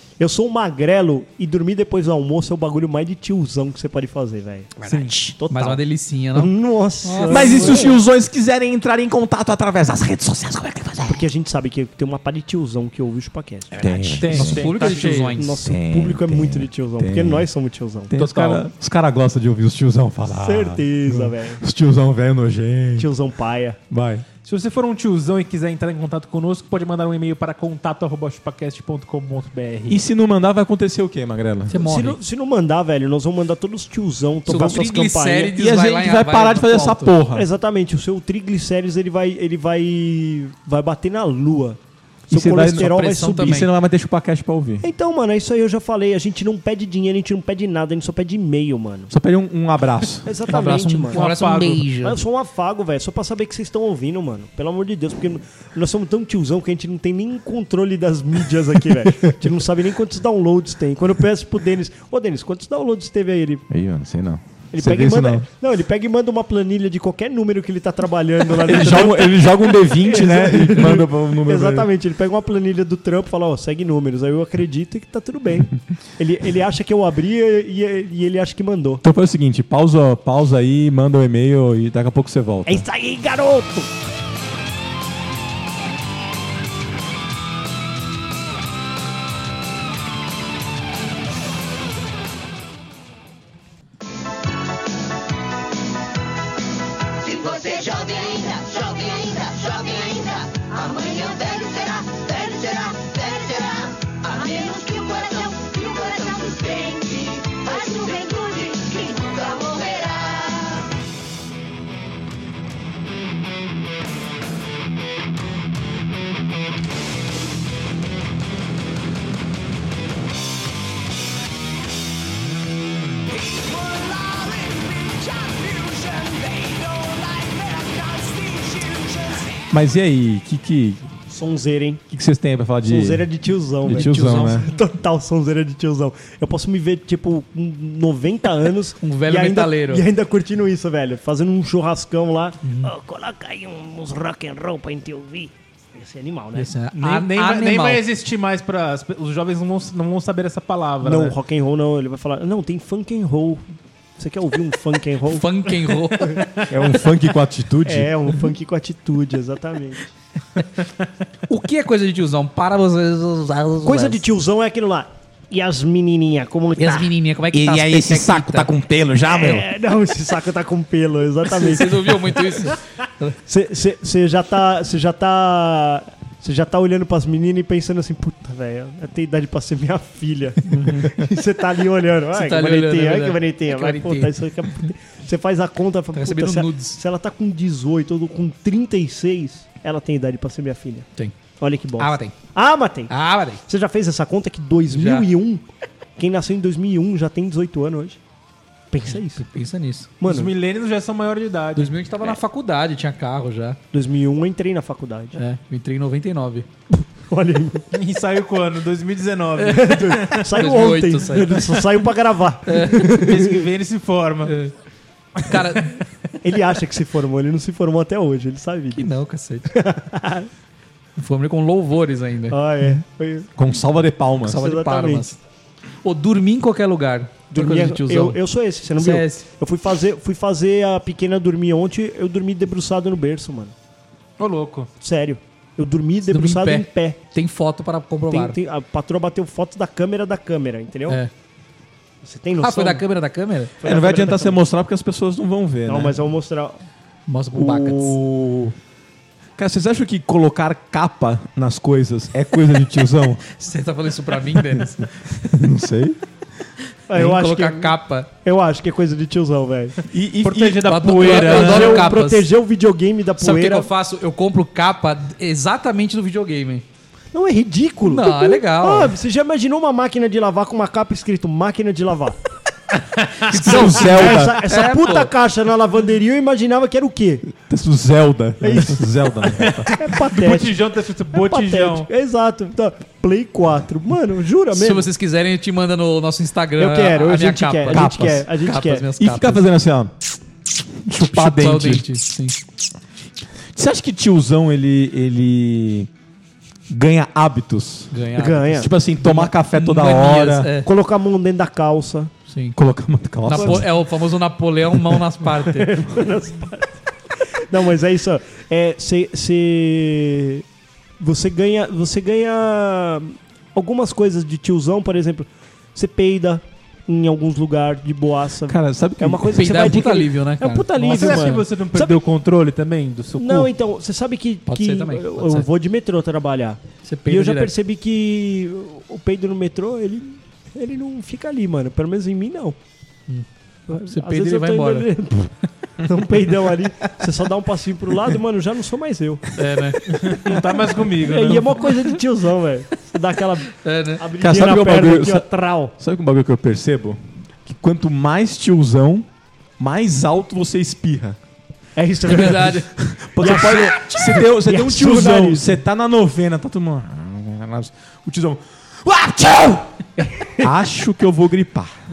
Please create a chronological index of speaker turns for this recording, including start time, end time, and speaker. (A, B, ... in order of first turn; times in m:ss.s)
0:00.2-0:04.7 A
0:04.8-0:06.5 B
0:04.9-0:05.1 C
0:05.4-0:05.8 A
0:06.4-0:07.9 A
0:07.0-0:08.0 B
0:07.3-0:11.2 D
0:11.1-0:14.6 A
0:13.7-0:15.6 B
0:13.8-0:14.7 D
0:14.2-0:15.4 C
0:15.3-0:18.1 A
0:15.6-0:17.5 D
0:18.1-0:23.1 D
0:18.2-0:18.6 C
0:20.4-0:21.6 A
0:23.0-0:23.8 A
0:23.9-0:24.3 D
0:24.4-0:30.0 C
0:29.9-0:31.7 D
0:31.7-0:32.2 B
0:31.8-0:35.5 A
0:34.5-0:37.1 B
0:35.6-0:37.5 D
0:37.4-0:43.6 A
0:42.3-0:44.8 D
0:42.7-0:43.7 B
0:44.8-0:49.1 A
0:49.1-0:50.3 D
0:50.2-0:51.2 A
0:50.5-0:52.2 B
0:51.1-0:51.9 C
0:52.0-1:03.7 A
1:03.7-1:05.5 D
1:04.7-1:19.0 A
1:08.5-1:11.9 D
1:19.0-1:22.8 D
1:22.7-1:23.9 A
1:37.2-1:50.9 E
2:09.7-2:11.1 D
2:11.3-2:12.0 A
2:12.1-2:13.3 D
2:12.8-2:26.7 A
2:13.8-2:14.7 D
2:13.9-2:14.7 B
2:19.0-2:20.0 B
2:22.6-2:22.9 B
2:26.6-2:28.0 B
2:27.0-2:31.4 C
2:31.0-2:33.6 A
2:34.2-2:36.6 A
2:35.3-2:36.7 B
2:36.7-2:38.1 D
2:37.8-2:40.0 A
2:41.5-2:44.2 B
2:43.8-2:47.1 A
2:46.8-2:48.7 B
2:47.5-2:49.7 D
2:49.3-2:52.7 A
2:51.4-2:53.4 B
2:53.5-3:11.1 A
3:00.7-3:01.1 B
3:02.4-3:04.4 B
3:06.1-3:07.0 B
3:11.6-3:13.1 A
3:12.0-3:12.4 B
3:13.1-3:13.6 B
3:13.7-3:15.6 A
3:14.9-3:15.3 B
3:16.2-3:18.2 A
3:18.9-3:19.4 A
3:19.1-3:20.1 B
3:20.2-3:20.5 A
3:20.2-3:21.9 C
3:21.8-3:23.8 B
3:23.9-3:25.4 A
3:25.4-3:26.7 B
3:27.0-3:27.8 A
3:27.9-3:30.5 C
3:29.6-3:33.6 A
3:30.5-3:31.8 B
3:32.7-3:33.0 B
3:33.1-3:34.5 C
3:34.5-3:34.7 B
3:35.4-3:36.0 B
3:36.4-3:39.1 A
3:39.0-3:39.7 B
3:39.7-3:40.5 A
3:41.2-3:42.6 B
3:42.5-3:43.5 A
3:43.6-3:44.6 D
3:44.4-3:45.4 B
3:44.6-3:45.3 A
3:46.0-3:48.4 B
3:47.5-3:53.7 A
3:49.0-3:49.5 B
3:54.4-3:54.9 C
3:55.0-3:57.2 A
3:56.3-3:58.6 B
3:58.3-4:01.2 A
4:02.2-4:03.0 A
4:02.6-4:03.7 B
4:03.8-4:04.6 A
4:03.8-4:06.2 D
4:05.9-4:06.8 A
4:07.3-4:08.2 B
4:07.5-4:08.8 D
4:09.6-4:13.4 D
4:13.5-4:15.4 B
4:15.5-4:16.2 D
4:17.1-4:20.0 A
4:17.1-4:18.3 B
4:20.1-4:21.1 D
4:20.4-4:22.1 C
4:20.9-4:22.5 B
4:21.2-4:23.9 A
4:23.4-4:26.8 B
4:27.3-4:32.4 A
4:28.0-4:29.1 B
4:33.2-4:33.8 C
4:33.5-4:35.3 B
4:33.5-4:34.6 D
4:33.7-4:37.5 A
4:37.6-4:39.9 D
4:38.6-4:39.2 A
4:39.5-4:42.1 C
4:39.9-4:40.8 A
4:41.3-4:45.1 A
4:44.7-4:49.6 B
4:46.8-4:49.1 A
4:47.9-4:48.5 D
4:49.2-4:50.2 D
4:51.1-4:52.0 D
4:51.2-4:52.6 B
4:53.8-4:56.1 D
4:56.9-4:58.2 D
4:58.1-5:00.9 B
4:58.4-4:58.9 A
4:58.8-5:00.7 D
5:00.8-5:02.3 A
5:02.5-5:02.8 B
5:02.8-5:03.9 D
5:03.5-5:05.9 B
5:03.5-5:03.8 A
5:05.7-5:07.0 A
5:07.5-5:10.6 A
5:11.2-5:22.2 A
5:18.7-5:19.8 D
5:19.5-5:21.6 B
5:21.0-5:23.7 C
5:23.4-5:32.8 A
5:24.7-5:25.7 B
5:27.0-5:27.7 B
5:33.9-5:39.5 A
5:34.1-5:35.1 B
5:39.6-5:40.2 B
5:40.1-5:41.9 C
5:40.5-5:45.9 A
5:43.8-5:44.2 B
5:44.4-5:45.5 D
5:46.0-5:49.3 D
5:49.8-5:51.4 D
5:52.0-5:55.8 A
5:52.3-5:52.9 B
5:53.0-5:59.9 D
6:00.2-6:00.7 A
6:00.6-6:02.0 D